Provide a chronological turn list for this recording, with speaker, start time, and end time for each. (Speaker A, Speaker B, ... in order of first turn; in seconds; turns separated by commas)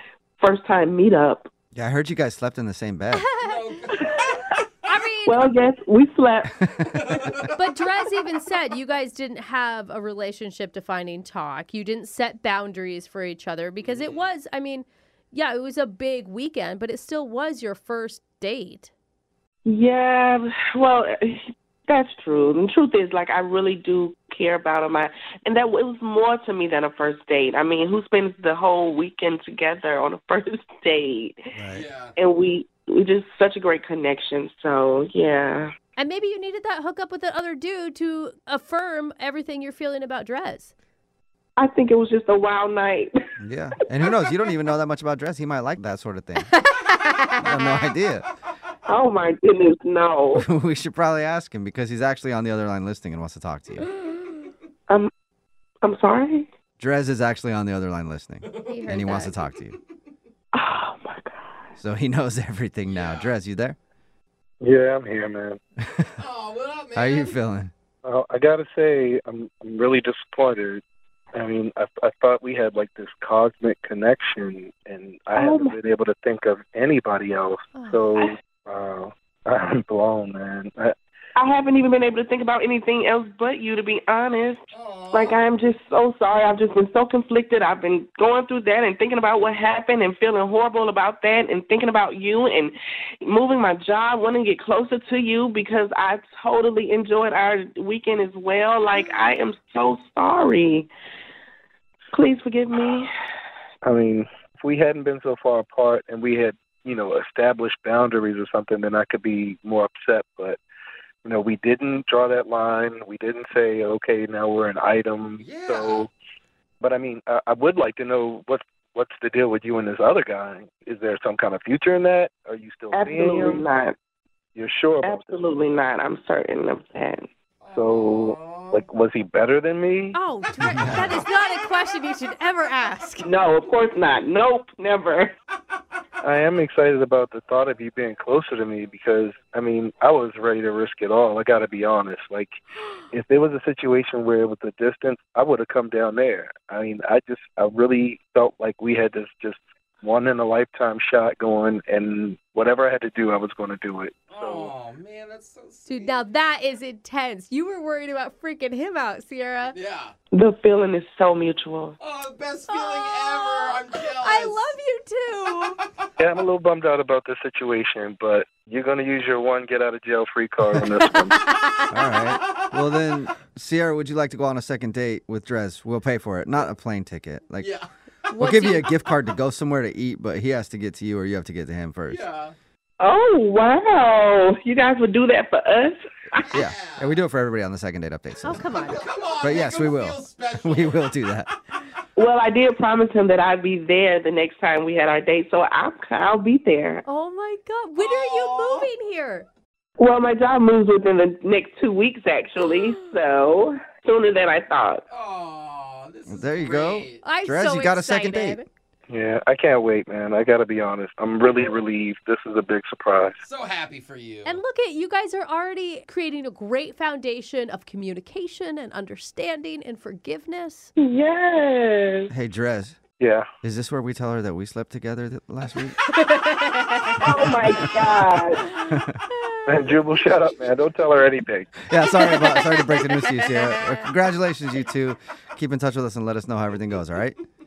Speaker A: 0.4-1.5, Speaker B: 1.8-3.3, Speaker C: 3.1-4.1, Speaker D: 3.4-4.9, Speaker A: 4.0-4.4, Speaker C: 4.9-5.4, Speaker A: 5.3-6.5, Speaker B: 6.6-7.0, Speaker D: 6.8-7.6, Speaker C: 7.5-18.9, Speaker D: 13.8-14.2, Speaker A: 19.6-31.5, Speaker B: 31.6-31.9, Speaker D: 31.7-32.1, Speaker A: 32.2-35.7, Speaker C: 36.0-40.7, Speaker A: 41.6-43.1, Speaker B: 43.4-46.5, Speaker C: 46.5-47.7, Speaker B: 47.4-48.3, Speaker A: 48.9-50.5, Speaker B: 50.4-53.9, Speaker A: 55.8-56.5, Speaker B: 56.8-59.8, Speaker D: 58.4-59.0, Speaker C: 58.7-59.3, Speaker A: 60.5-61.7, Speaker B: 61.8-63.8, Speaker D: 62.9-63.3, Speaker E: 64.6-65.6, Speaker B: 65.8-66.1, Speaker D: 66.2-67.3, Speaker B: 66.9-67.7, Speaker E: 68.0-70.8, Speaker E: 71.3-81.0, Speaker A: 75.4-75.8, Speaker C: 77.8-78.1, Speaker A: 81.4-84.6, Speaker D: 84.7-85.4, Speaker A: 85.1-100.9, Speaker A: 102.1-103.1, Speaker E: 103.8-110.6, Speaker E: 111.2-116.1, Speaker D: 115.4-116.1, Speaker E: 116.8-123.7, Speaker A: 122.9-124.0, Speaker E: 124.6-125.4, Speaker A: 125.0-127.3, Speaker D: 127.6-128.8, Speaker E: 127.7-130.2, Speaker C: 130.1-133.3, Speaker B: 130.6-131.2, Speaker A: 133.2-135.3, Speaker E: 136.2-142.5, Speaker E: 143.1-154.8, Speaker D: 154.3-156.2, Speaker C: 155.9-159.8, Speaker D: 159.7-160.1, Speaker A: 160.3-162.0, Speaker D: 162.0-164.7, Speaker C: 162.7-165.8, Speaker D: 165.8-166.1, Speaker E: 166.2-171.4, Speaker C: 170.9-172.2, Speaker B: 171.9-177.7, Speaker D: 172.4-172.8, Speaker D: 177.6-177.9, Speaker C: 178.3-178.9, Speaker B: 178.4-182.2, Speaker D: 182.1-182.6, Speaker A: 183.0-186.5, Speaker D: 186.5-187.2, Speaker B: 186.5-188.8, Speaker C: 188.4-189.0, Speaker D: 188.8-191.1, Speaker B: 189.4-191.5, Speaker A: 192.2-197.0, Speaker C: 197.1-199.5, Speaker D: 198.0-198.9, Speaker A: 200.0-205.0, Speaker C: 202.6-202.9, Speaker D: 205.1-207.2, Speaker B: 206.3-208.6, Speaker C: 207.2-208.7, Speaker E: 209.1-213.5, Speaker D: 213.4-214.6, Speaker C: 214.4-220.9, Speaker A: 221.0-222.3, Speaker B: 222.3-223.0, Speaker E: 223.2-223.5, Speaker B: 223.6-226.0, Speaker C: 226.0-227.5, Speaker A: 227.2-228.7, Speaker B: 227.4-228.3, Speaker D: 227.7-228.0, Speaker C: 228.6-229.8, Speaker B: 228.9-229.2, Speaker E: 229.7-231.8, Speaker D: 230.4-230.7, Speaker B: 231.8-237.4, Speaker C: 232.0-234.1